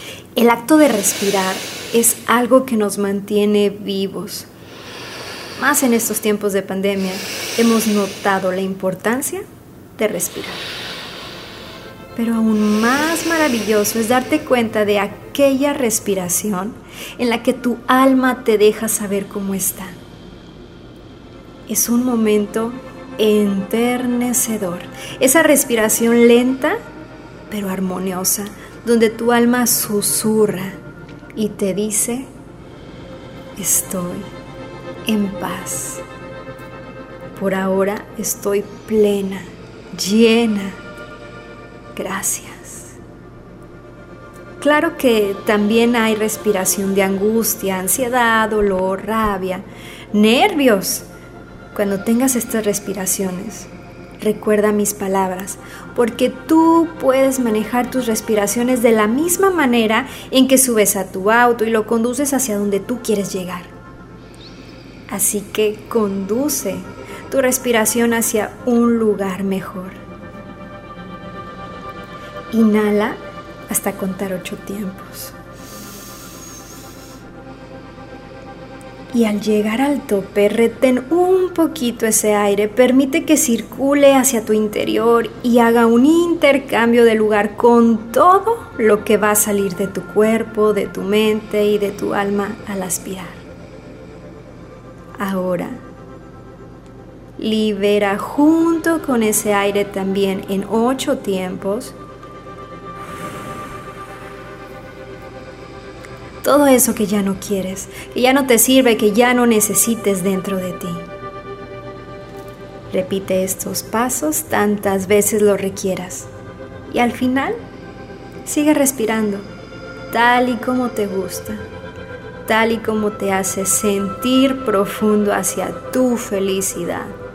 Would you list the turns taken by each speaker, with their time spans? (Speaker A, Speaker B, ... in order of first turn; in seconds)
Speaker A: 0.3-4.5, 5.6-9.4, 10.0-10.7, 12.2-20.0, 21.7-26.8, 27.5-30.8, 31.3-32.3, 33.6-34.3, 35.0-36.0, 37.3-40.8, 41.9-43.0, 44.6-51.1, 51.7-63.7, 65.1-70.0, 72.5-75.3, 79.1-93.4, 95.2-95.8, 97.4-101.9, 106.4-111.1, 112.9-116.3, 116.9-117.6, 118.4-119.5, 120.1-121.6, 122.5-127.2